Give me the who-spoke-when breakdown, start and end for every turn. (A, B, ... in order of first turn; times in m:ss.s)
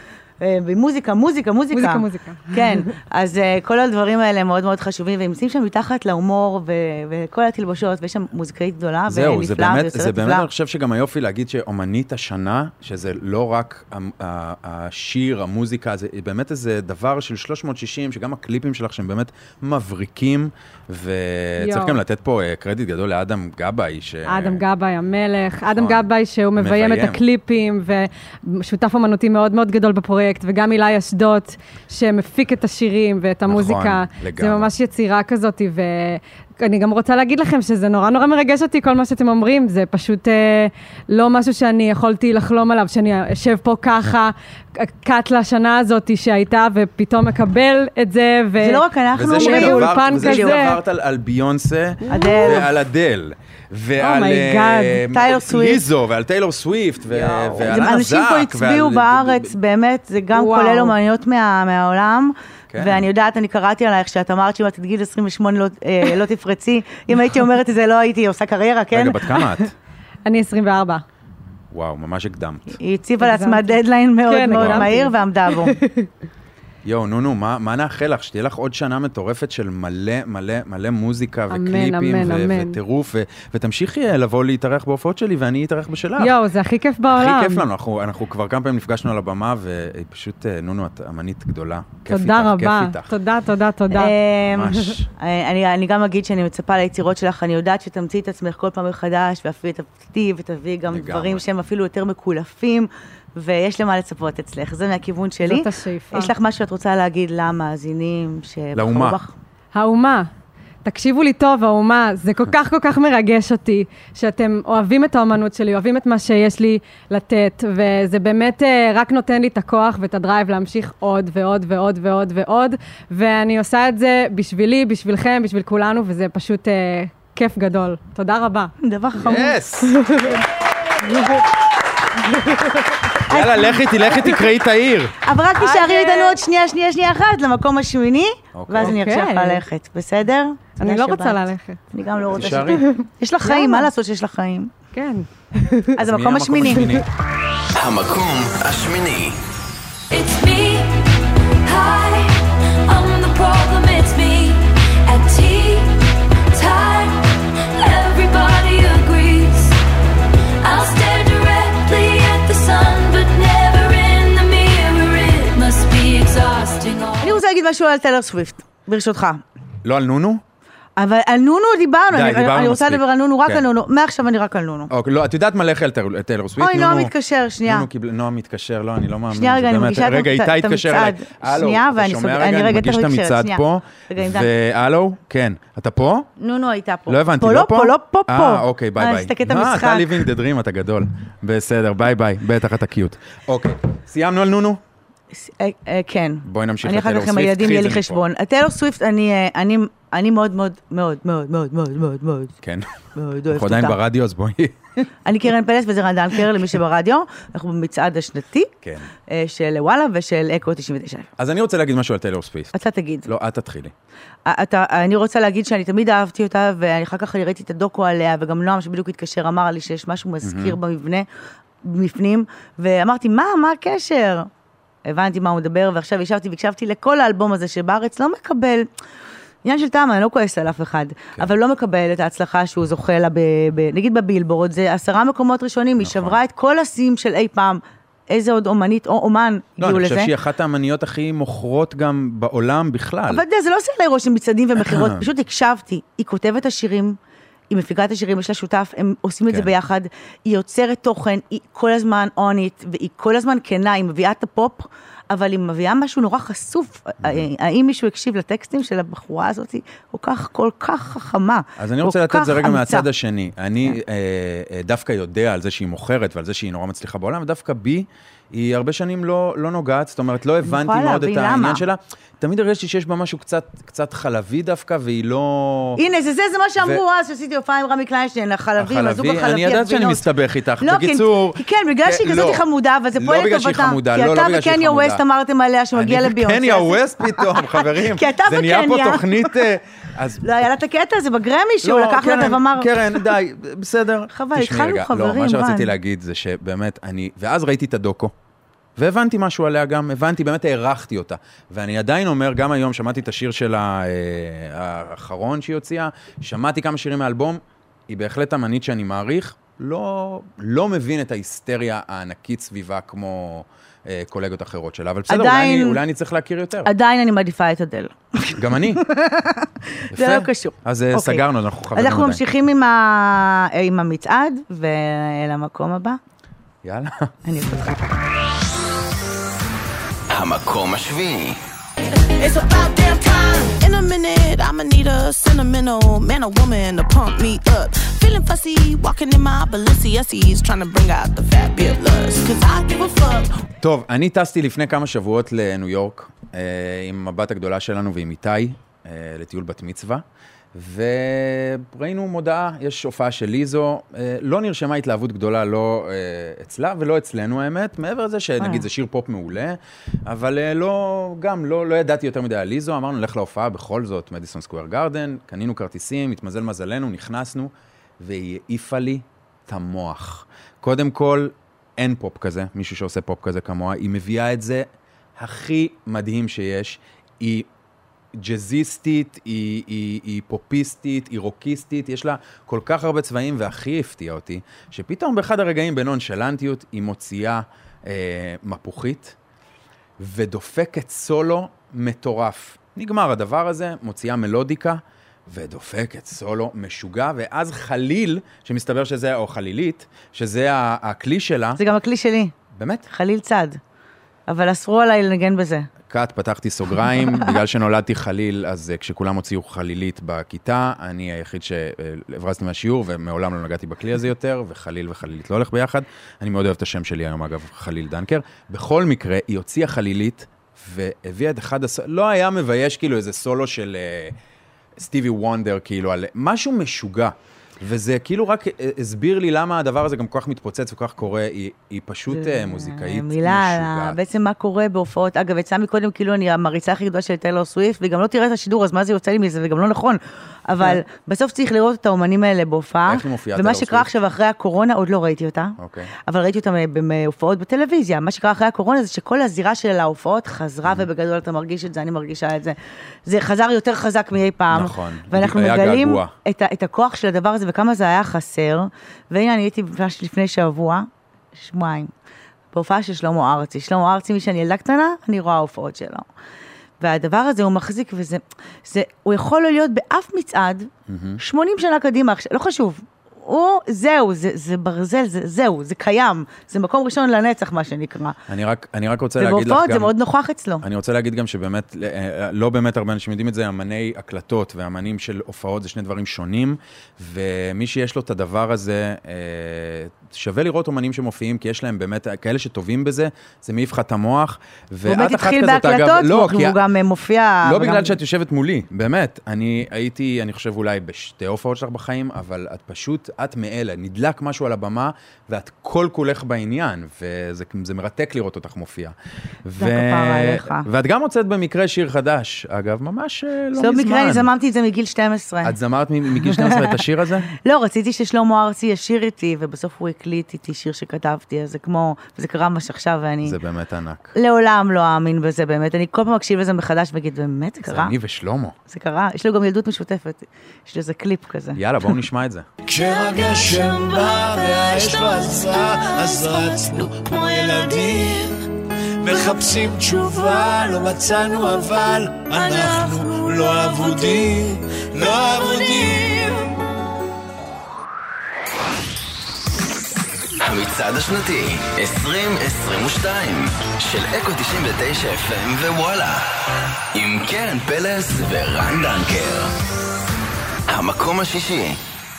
0:00.4-0:10.5 A
0:01.7-0:02.9 B
0:09.1-0:24.6 C
0:21.6-0:22.0 B
0:24.2-0:50.8 B
0:25.6-0:27.2 C
0:33.4-0:34.7 C
0:48.6-0:50.7 A
0:49.1-0:59.6 C
0:52.0-0:52.7 B
0:52.1-0:52.7 A
0:54.0-0:55.1 B
0:55.1-0:55.8 A
0:57.6-1:09.4 A
1:00.3-1:01.0 B
1:02.7-1:03.1 C
1:08.9-1:09.7 C
1:10.2-1:11.0 B
1:11.7-1:12.8 C
1:12.7-1:15.8 A
1:13.2-1:16.1 B
1:14.5-1:14.9 C
1:16.8-1:26.4 C
1:21.5-1:22.8 B
1:26.2-1:27.7 B
1:27.1-1:33.1 C
1:32.1-1:34.1 B
1:33.9-1:49.3 A
1:34.4-1:35.1 C
1:40.9-1:41.4 C
1:45.4-1:46.3 B
1:48.7-1:49.2 C
1:49.7-1:50.3 B
1:50.8-2:08.7 B
2:08.8-2:09.6 A
2:09.2-2:10.0 C
2:10.0-2:10.4 B
2:11.1-2:11.4 B
2:13.3-2:15.2 C
2:13.3-2:14.4 A
2:15.2-2:24.7 A
2:15.6-2:16.4 B
2:18.5-2:19.0 C
2:18.8-2:19.6 B
2:20.8-2:21.8 B
2:22.3-2:22.9 C
2:22.7-2:23.9 B
2:24.9-2:25.9 B
2:25.9-2:27.0 A
2:26.0-2:27.1 C
2:26.8-2:27.0 B
2:27.7-2:29.4 D
2:30.1-2:31.0 E
2:31.6-2:36.0 E
2:36.5-2:37.2 E
2:37.8-2:39.8 E
2:40.6-2:47.4 E
2:47.2-2:49.4 A
2:49.8-2:50.4 C
2:51.0-2:54.9 A
2:52.1-2:53.6 C
2:54.9-2:57.1 C
2:56.6-2:57.9 A
2:57.6-3:06.3 C
2:59.3-3:04.5 A
3:06.4-3:10.2 A
3:07.1-3:14.8 C
3:15.3-3:22.5 A
3:16.4-3:18.2 C
3:22.6-3:22.9 C
3:23.1-3:24.0 A
3:23.5-3:24.8 C
3:25.2-3:28.7 A
3:28.8-3:29.1 C
3:29.3-3:31.3 A
3:31.4-3:32.7 C
3:32.7-3:33.3 A
3:33.2-3:33.9 C
3:34.4-3:41.3 A
3:40.4-3:40.8 C
3:41.8-3:44.5 A
3:45.0-3:48.9 A
3:49.6-4:00.3 A
3:56.0-3:56.4 C
3:59.8-4:03.4 C
4:03.3-4:07.2 A
4:04.8-4:05.2 C
4:07.7-4:23.1 A
4:21.8-4:36.0 C
4:30.6-4:31.8 A
4:36.0-4:40.2 A
4:38.8-4:42.6 C
4:40.8-4:49.5 A
4:43.1-4:45.2 C
4:45.9-4:50.6 C
4:50.4-4:53.0 A
4:51.8-4:58.3 C
4:54.3-4:55.9 A
4:59.0-5:16.9 C
5:15.3-5:16.0 A
5:16.8-5:26.2 A
5:18.5-5:19.0 C
5:20.1-5:22.4 C
5:26.8-5:27.3 C
5:27.4-5:28.1 A
5:30.3-5:31.6 D
5:32.4-5:43.5 F
5:43.8-6:17.7 C
5:58.6-5:58.8 A
6:18.3-6:29.4 C
6:30.2-6:41.8 C
6:41.8-6:42.5 A
6:42.7-6:43.0 C
6:43.1-6:43.8 A
6:44.5-6:45.9 A
6:46.1-7:04.4 C
7:05.0-7:14.2 C
7:12.3-7:42.1 A
7:23.1-7:24.1 C
7:25.8-7:26.1 C
7:34.7-7:36.3 C
7:42.7-7:46.2 A
7:47.0-7:58.4 A
7:51.1-7:51.4 C
7:58.5-8:00.1 C
7:59.4-8:00.8 A
8:00.8-8:16.8 C
8:15.1-8:18.2 A
8:17.6-8:34.5 C
8:29.8-8:30.9 A
8:33.8-8:35.7 A
8:35.6-8:37.5 C
8:36.6-8:36.9 A
8:37.6-8:43.6 A
8:43.4-8:44.3 C
8:44.3-8:48.1 A
8:47.8-8:48.8 C
8:48.9-8:51.8 A
8:51.7-8:52.7 C
8:52.9-8:58.6 G
8:59.2-9:06.7 G
9:10.6-9:16.4 D
9:17.1-9:19.7 D
9:20.9-9:22.0 D